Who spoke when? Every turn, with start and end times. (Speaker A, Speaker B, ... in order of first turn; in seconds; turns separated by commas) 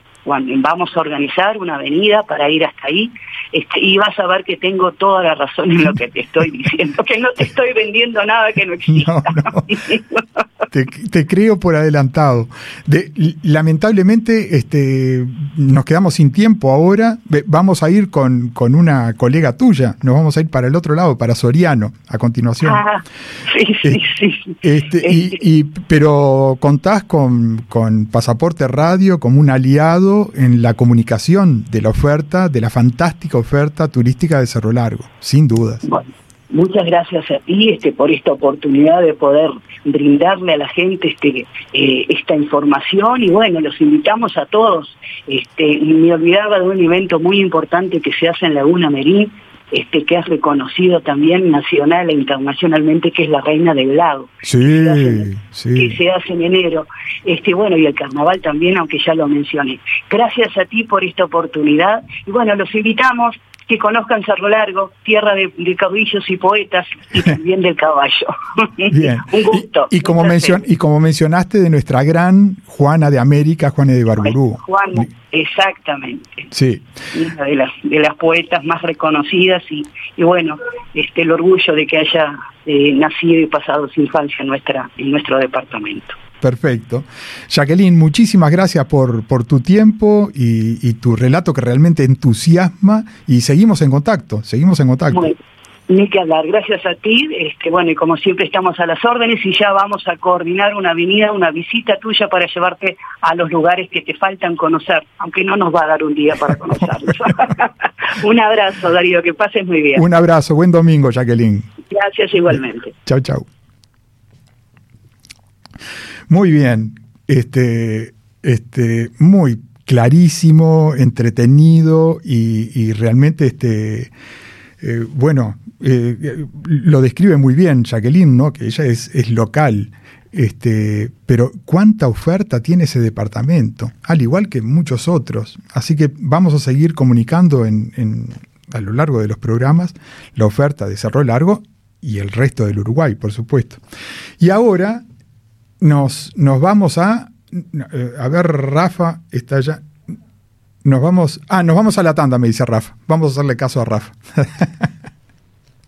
Speaker A: 0.2-10.4, Speaker B: 8.9-9.7, Speaker B: 10.7-22.8, Speaker A: 22.6-25.4, Speaker B: 24.6-35.8, Speaker A: 35.8-70.6, Speaker B: 54.4-56.0, Speaker B: 68.9-75.1, Speaker A: 74.2-76.4, Speaker B: 76.5-76.9, Speaker A: 77.1-86.2, Speaker B: 86.4-95.3, Speaker A: 95.1-95.4, Speaker A: 95.9-110.0, Speaker B: 110.0-111.7, Speaker A: 111.9-112.9, Speaker B: 112.5-113.5, Speaker B: 116.3-124.1, Speaker B: 124.8-143.8, Speaker B: 144.4-145.0, Speaker B: 145.8-149.8, Speaker B: 150.8-154.9